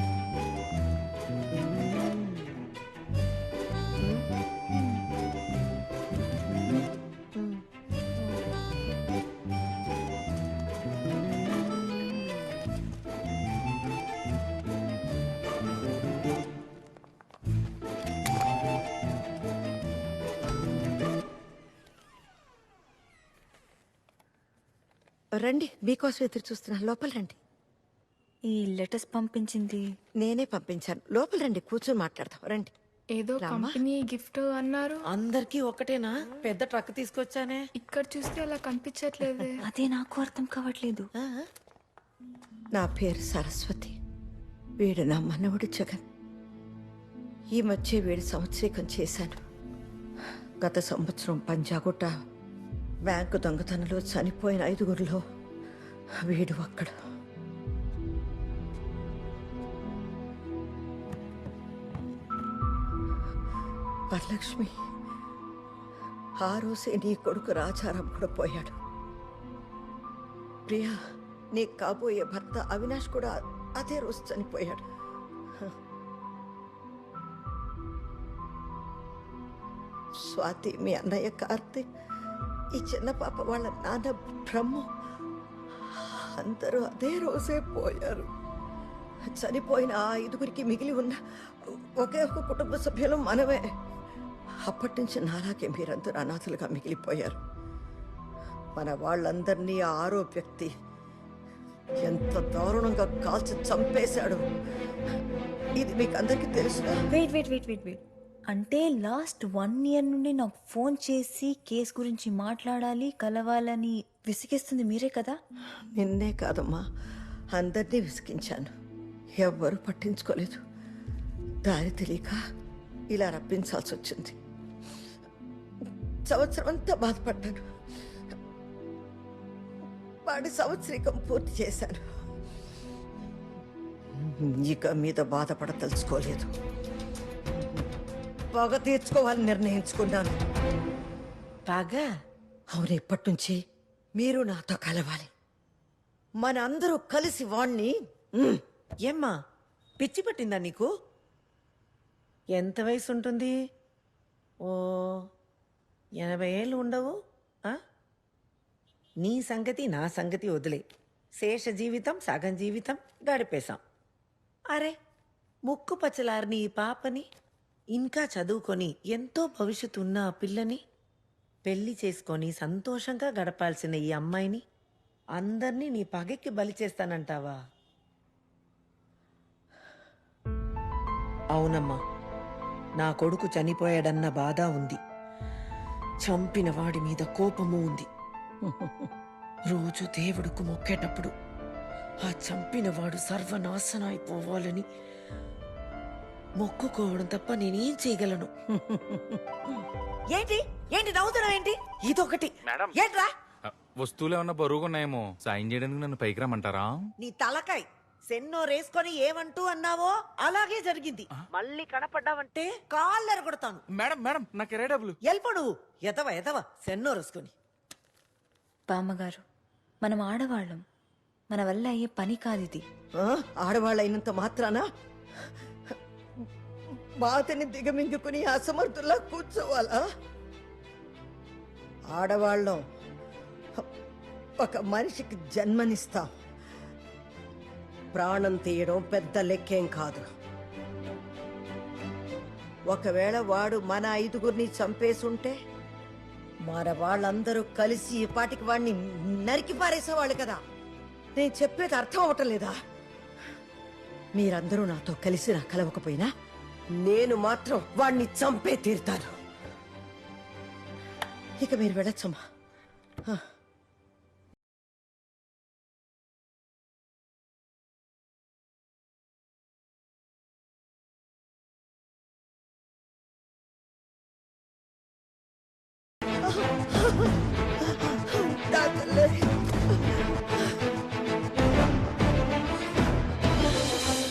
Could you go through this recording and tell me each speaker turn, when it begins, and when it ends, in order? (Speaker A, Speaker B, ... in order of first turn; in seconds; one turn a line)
Speaker A: 25.4-27.4
Speaker B: 28.5-29.8
Speaker A: 30.2-32.7
Speaker C: 33.1-35.0
Speaker A: 33.4-33.8
Speaker D: 35.1-37.6
Speaker C: 37.8-39.6
Speaker B: 39.6-41.1
Speaker D: 41.2-41.5
Speaker A: 42.8-44.0
Speaker A: 44.8-46.0
Speaker A: 47.5-49.4
Speaker A: 50.6-52.1
Speaker A: 53.1-55.2
Speaker A: 56.2-56.9
Speaker A: 64.1-64.7
Speaker A: 66.4-68.7
Speaker A: 70.7-71.0
Speaker A: 71.5-74.8
Speaker A: 80.3-81.8
Speaker A: 82.8-84.9
Speaker A: 86.0-88.2
Speaker A: 89.3-93.6
Speaker A: 94.6-97.3
Speaker A: 98.8-100.7
Speaker A: 102.0-104.4
Speaker A: 105.8-107.0
Speaker B: 107.1-115.3
Speaker A: 116.0-116.8
Speaker A: 117.5-118.7
Speaker A: 119.4-120.6
Speaker A: 121.7-122.4
Speaker A: 123.1-124.3
Speaker A: 126.3-127.6
Speaker A: 130.3-132.0
Speaker A: 134.2-136.5
Speaker A: 137.5-137.9
Speaker A: 138.5-140.3
Speaker D: 141.7-142.1
Speaker A: 142.7-143.6
Speaker A: 144.2-145.3
Speaker A: 146.4-148.6
Speaker D: 149.1-149.3
Speaker D: 150.0-150.9
Speaker D: 152.6-153.5
Speaker D: 154.7-155.2
Speaker D: 156.2-157.1
Speaker D: 159.2-160.8
Speaker D: 161.4-163.8
Speaker D: 165.7-167.2
Speaker D: 167.9-170.8
Speaker D: 171.7-174.6
Speaker D: 175.4-177.6
Speaker D: 181.5-182.0
Speaker D: 183.0-185.0
Speaker D: 186.2-188.1
Speaker A: 188.6-189.1
Speaker D: 189.7-191.3
Speaker D: 192.2-194.8
Speaker D: 196.6-198.5
Speaker A: 198.7-199.6
Speaker D: 200.3-203.3
Speaker E: 204.0-207.0
Speaker D: 207.2-213.8
Speaker E: 214.0-215.1
Speaker D: 215.2-217.5
Speaker B: 218.9-219.4
Speaker B: 220.0-220.8
Speaker B: 221.5-222.8
Speaker A: 223.2-224.8
Speaker A: 227.2-230.0
Speaker A: 232.1-232.8
Speaker A: 234.6-236.2
Speaker A: 238.1-240.2
Speaker A: 242.9-245.5
Speaker A: 246.7-250.6
Speaker A: 251.4-252.7
Speaker A: 254.3-256.3
Speaker A: 257.0-259.3
Speaker A: 261.6-262.4
Speaker A: 276.5-277.3
Speaker A: 277.9-280.2